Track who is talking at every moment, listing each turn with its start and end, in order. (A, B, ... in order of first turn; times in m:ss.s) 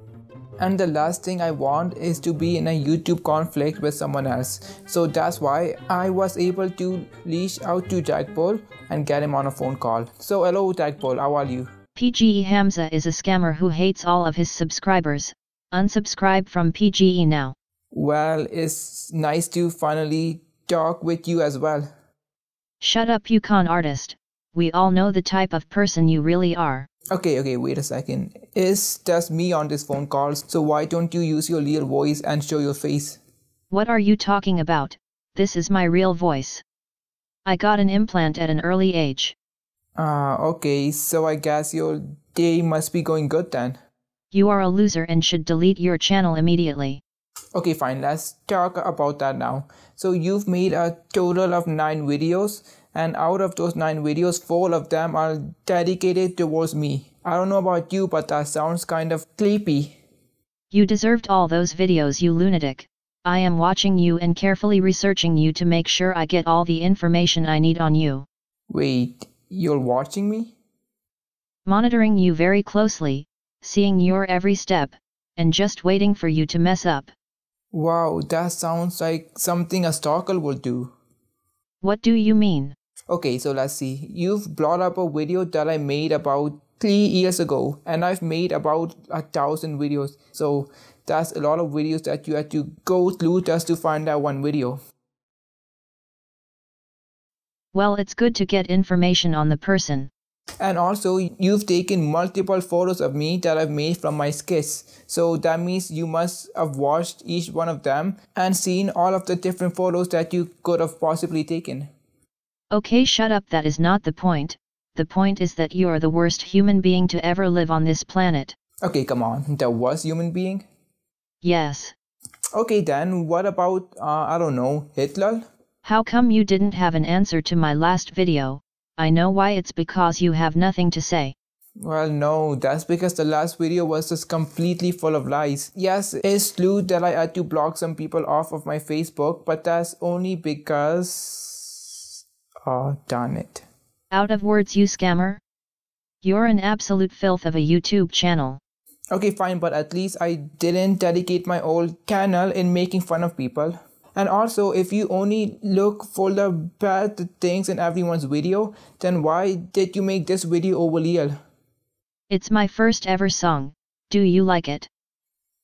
0:00.6-0:11.7 A
0:12.0-0:17.5 B
0:17.9-0:21.9 A
0:22.8-0:26.9 B
0:27.1-0:33.2 A
0:33.7-0:36.6 B
0:37.4-0:39.3 B
0:40.0-0:43.8 A
0:44.3-0:47.0 B
0:47.5-1:00.0 A
1:00.7-1:08.2 B
1:08.7-1:10.6 A
1:11.6-1:17.1 B
1:17.7-1:20.9 A
1:21.8-1:22.7 B
1:23.1-1:34.8 A
1:37.7-1:40.1 B
1:40.6-1:51.9 A
1:52.7-1:58.5 B
1:58.8-2:00.6 A
2:01.4-2:01.9 B
2:02.5-2:05.4 A
2:05.8-2:11.3 B
2:11.8-2:22.1 A
2:22.6-2:23.6 A
2:24.1-2:25.4 B
2:26.2-2:28.6 B
2:29.1-2:41.4 A
2:42.3-2:44.9 B